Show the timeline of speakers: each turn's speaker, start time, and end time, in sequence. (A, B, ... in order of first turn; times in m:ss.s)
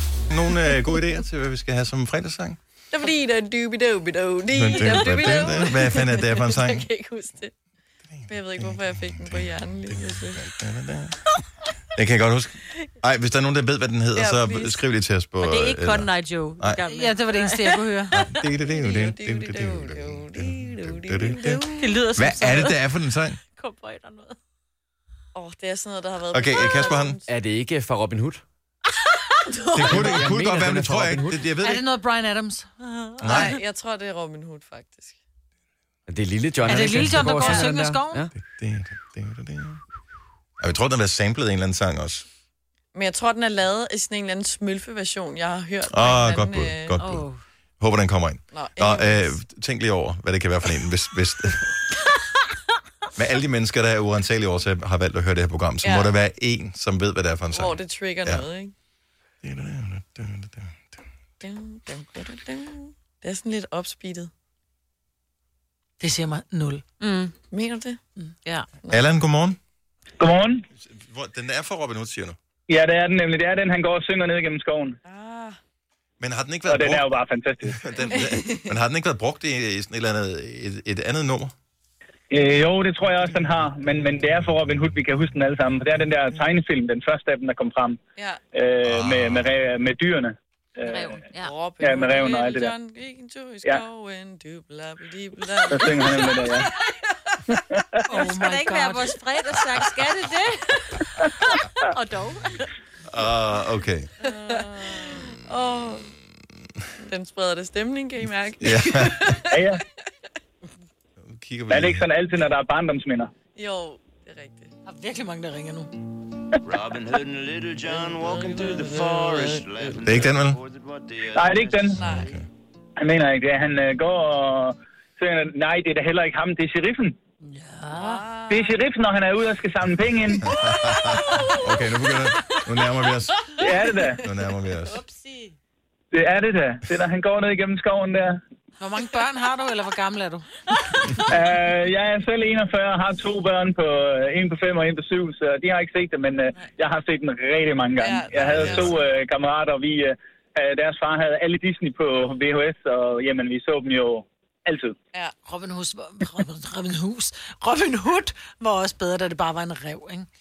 0:00.3-0:02.6 A
0:02.9-0:07.5 B
0:04.5-0:06.9 A
0:08.1-0:11.2 A
0:08.3-0:10.4 B
0:11.9-0:16.8 A
0:14.2-0:14.8 B
0:15.4-0:18.4 C
0:16.4-0:18.2 D
0:18.1-0:23.4 A
0:18.6-0:21.9 B
0:21.7-0:22.8 C
0:23.5-0:24.4 C
0:25.3-0:27.3 B
0:26.3-0:27.2 A
0:27.3-0:28.4 E
0:29.4-0:30.3 B
0:29.7-0:31.8 A
0:29.7-0:31.4 E
0:31.5-0:32.8 D
0:32.9-0:33.5 C
0:33.2-0:33.6 A
0:33.2-0:35.2 B
0:36.1-0:38.3 E
0:36.6-0:38.3 D
0:37.4-0:37.7 B
0:38.4-0:39.8 A
0:40.6-0:42.3 A
0:42.9-0:47.1 B
0:45.9-0:51.8 A
0:47.0-0:47.4 D
0:48.5-0:49.4 B
0:53.2-0:58.4 A
0:55.8-0:56.1 B
0:57.5-0:58.7 B
0:59.4-1:00.7 A
1:01.4-1:04.3 B
1:06.0-1:06.8 D
1:07.0-1:07.3 C
1:07.5-1:08.0 B
1:08.4-1:08.7 C
1:08.9-1:09.6 A
1:10.2-1:10.6 F
1:10.8-1:12.4 A
1:12.7-1:15.0 F
1:15.0-1:15.6 B
1:16.2-1:21.5 A
1:16.7-1:17.9 F
1:18.1-1:18.7 B
1:22.3-1:28.0 F
1:28.2-1:28.4 B
1:28.5-1:31.1 F
1:28.8-1:29.5 A
1:30.8-1:31.5 C
1:31.4-1:36.7 B
1:31.8-1:32.7 F
1:35.7-1:36.7 F
1:37.5-1:38.4 F
1:38.1-1:39.2 D
1:38.4-1:40.7 C
1:41.8-1:42.7 C
1:43.1-1:44.1 A
1:44.2-1:46.1 B
1:47.0-1:49.6 B
1:48.6-1:49.4 A
1:49.5-1:49.8 F
1:51.2-1:52.1 A
1:51.7-1:53.3 F
1:53.5-1:54.7 B
1:54.9-1:55.9 D
1:56.6-2:02.2 G
1:57.8-2:00.0 B
2:00.0-2:00.6 A
2:01.3-2:02.0 F
2:01.9-2:02.4 B
2:02.0-2:02.5 A
2:03.0-2:07.2 F
2:07.5-2:08.2 D
2:07.9-2:08.7 B
2:08.5-2:10.5 F
2:10.5-2:15.0 A
2:10.6-2:11.7 D
2:13.6-2:14.2 F
2:14.9-2:15.5 D
2:16.1-2:18.4 F
2:18.8-2:20.5 D
2:21.3-2:35.0 F
2:28.0-2:29.0 B
2:35.4-2:40.3 D